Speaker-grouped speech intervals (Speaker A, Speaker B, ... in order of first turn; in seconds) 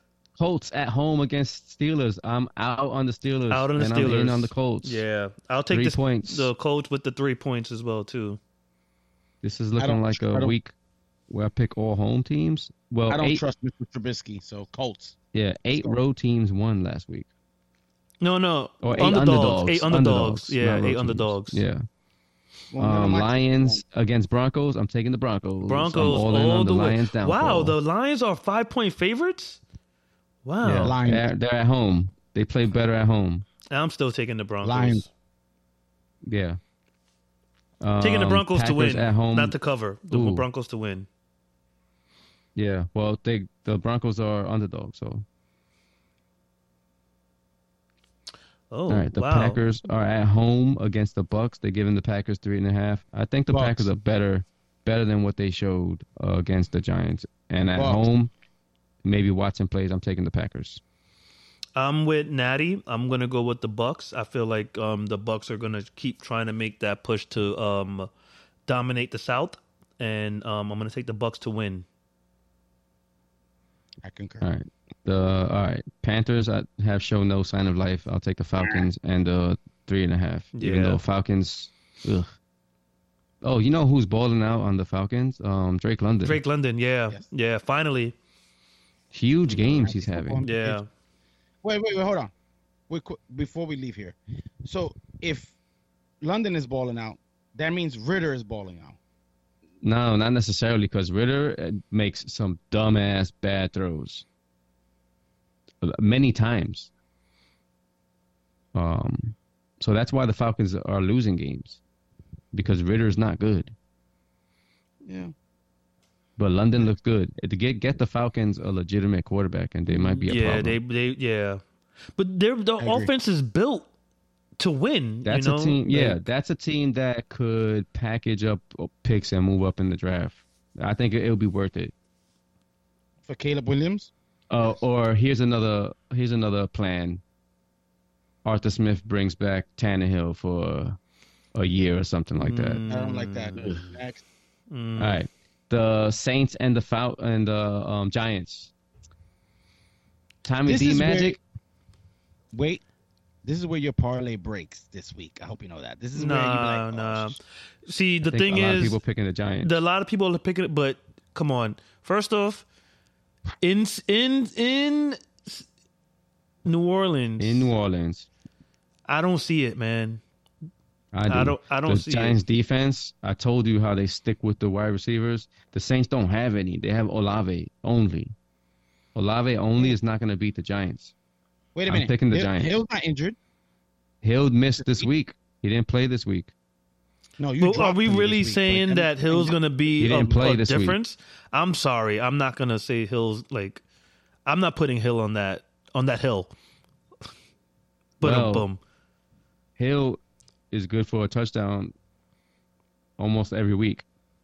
Speaker A: 0.4-5.0, 5.7-6.5, 9.4-10.7, 11.3-13.4, 15.3-17.3, 18.8-21.8, 22.8-27.8, 30.6-33.5, 36.2-36.6, 37.8-39.5, 40.1-40.4, 42.5-45.2, 48.9-58.3, 59.0-60.8, 74.4-82.3, 83.4-86.4, 89.1-90.4, 99.8-104.2, 105.8-106.9, 108.7-111.8, 112.5-113.7, 116.4-120.8, 125.2-131.9, 134.5-137.2, 138.4-141.0, 141.5-142.8, 143.6-143.9, 145.0-148.7, 150.4-151.4, 158.2-159.8, 167.4-168.3, 171.1-178.3, 179.1-181.1, 181.9-182.7, 184.2-186.5, 190.0-191.0, 198.2-198.7, 199.8-200.2, 200.7-201.9, 203.2-204.0
Speaker B: 3.5-8.4, 18.2-21.6, 25.6-29.6, 30.4-30.9, 33.7-35.1, 38.0-41.1, 48.7-49.6, 61.8-68.1, 68.7-71.8, 80.5-81.0, 86.2-88.2, 90.4-90.8, 120.1-121.6, 122.2-123.9, 124.6-126.2, 142.3-143.9, 144.7-145.2, 156.1-159.0, 159.6-162.6, 163.6-165.7, 166.6-167.7, 169.1-170.2, 171.3-172.4, 187.6-193.8, 194.4-196.5, 198.2-198.8
Speaker C: 9.8-10.5, 13.1-15.2, 15.7-16.0, 22.7-23.8, 30.8-31.3, 34.6-35.0, 53.5-53.9, 57.7-58.0, 74.0-74.5, 78.6-78.9, 89.5-90.8, 91.6-92.3, 92.9-95.5, 96.2-99.0, 115.0-115.3, 122.8-123.1, 133.2-134.1, 142.9-144.2, 150.7-151.4, 152.5-152.8, 153.4-157.4, 181.7-183.3, 184.8-185.1, 187.4-189.6